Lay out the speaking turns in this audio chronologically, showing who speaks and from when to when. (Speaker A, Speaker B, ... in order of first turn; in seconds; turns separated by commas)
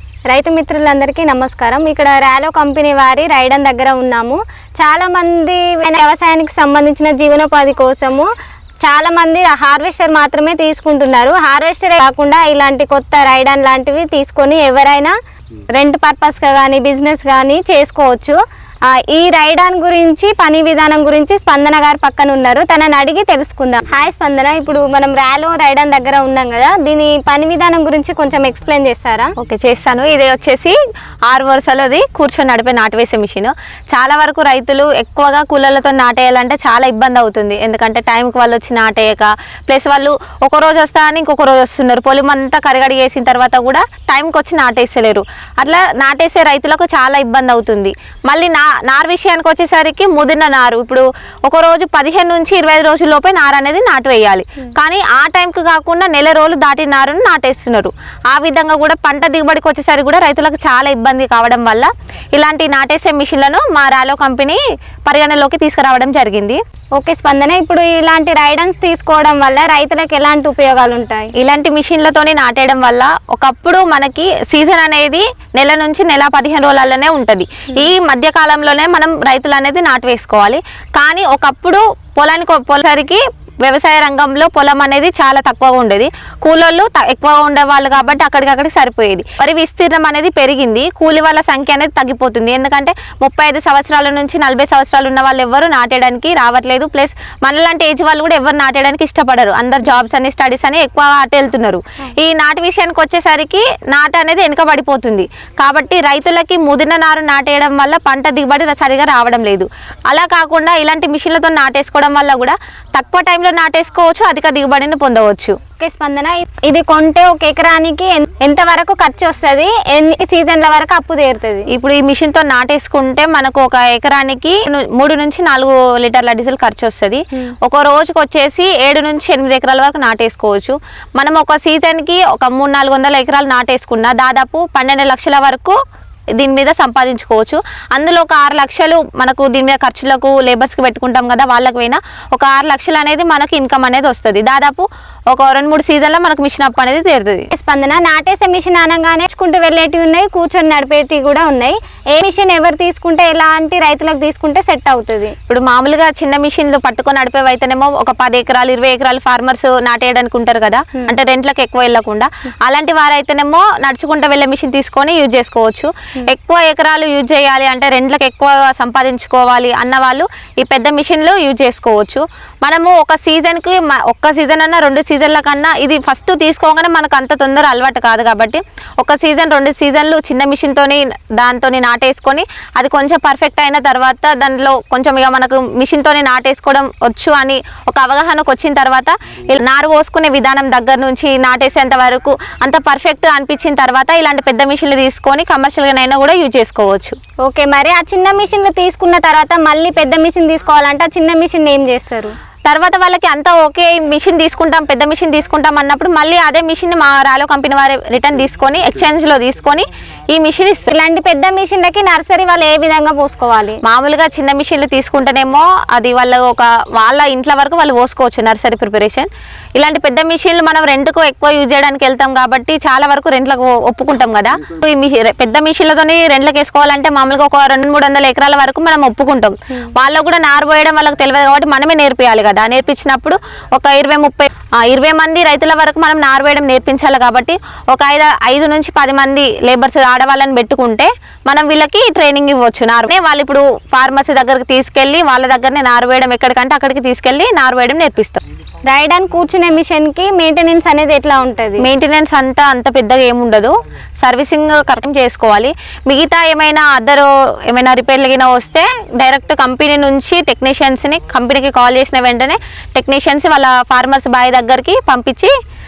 Speaker A: 0.3-8.3, Speaker A: 8.8-15.1, Speaker A: 15.7-18.4, Speaker A: 18.9-29.3, Speaker B: 29.4-30.8, Speaker B: 31.3-66.6, Speaker A: 67.0-71.3, Speaker B: 71.3-115.6, Speaker A: 115.8-121.7, Speaker B: 121.7-135.8, Speaker B: 136.4-147.5, Speaker A: 147.5-155.3, Speaker B: 155.5-197.2, Speaker A: 197.4-202.3, Speaker B: 202.7-210.9, Speaker A: 210.9-213.8, Speaker B: 213.8-248.4, Speaker A: 248.8-251.8, Speaker B: 251.8-265.5